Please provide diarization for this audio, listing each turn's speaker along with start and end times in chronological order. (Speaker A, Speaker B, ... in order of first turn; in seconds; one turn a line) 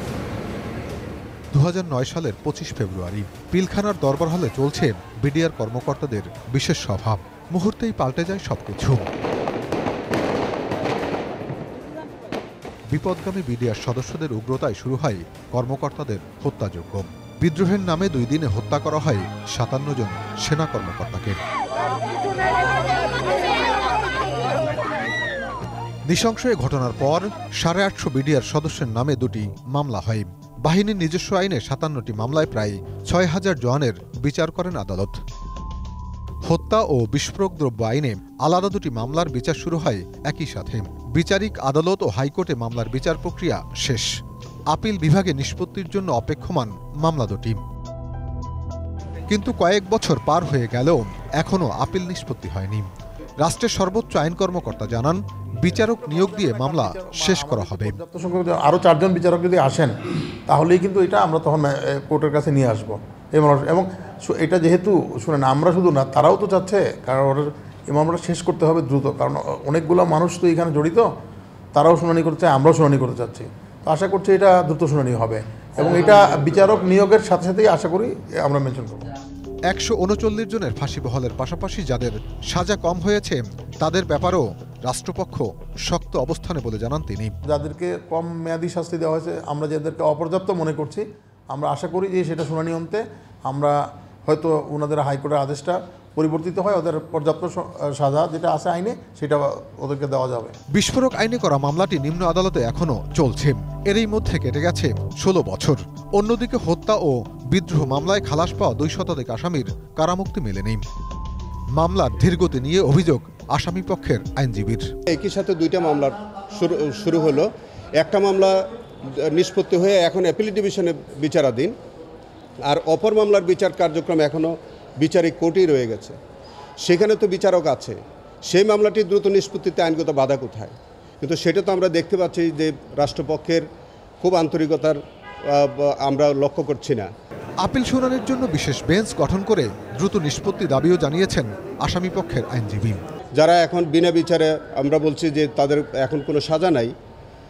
Speaker A: 1.5-9.0
Speaker A: 12.9-21.4
Speaker A: 26.1-35.1
Speaker A: 36.5-44.1
Speaker A: 44.7-47.6
Speaker A: 49.3-52.9
Speaker A: 53.4-58.0
Speaker B: 56.0-59.9
Speaker B: 60.5-71.1
Speaker B: 71.7-79.0
Speaker C: 75.8-76.8
Speaker A: 79.7-87.3
Speaker B: 87.5-100.5
Speaker A: 100.7-110.8
Speaker A: 111.8-114.8
Speaker C: 115.1-117.5
Speaker C: 118.0-118.5
Speaker C: 119.1-121.7
Speaker C: 122.7-126.2
Speaker C: 126.8-133.6
Speaker C: 134.2-137.1
Speaker A: 137.6-143.0
Speaker C: 143.3-146.9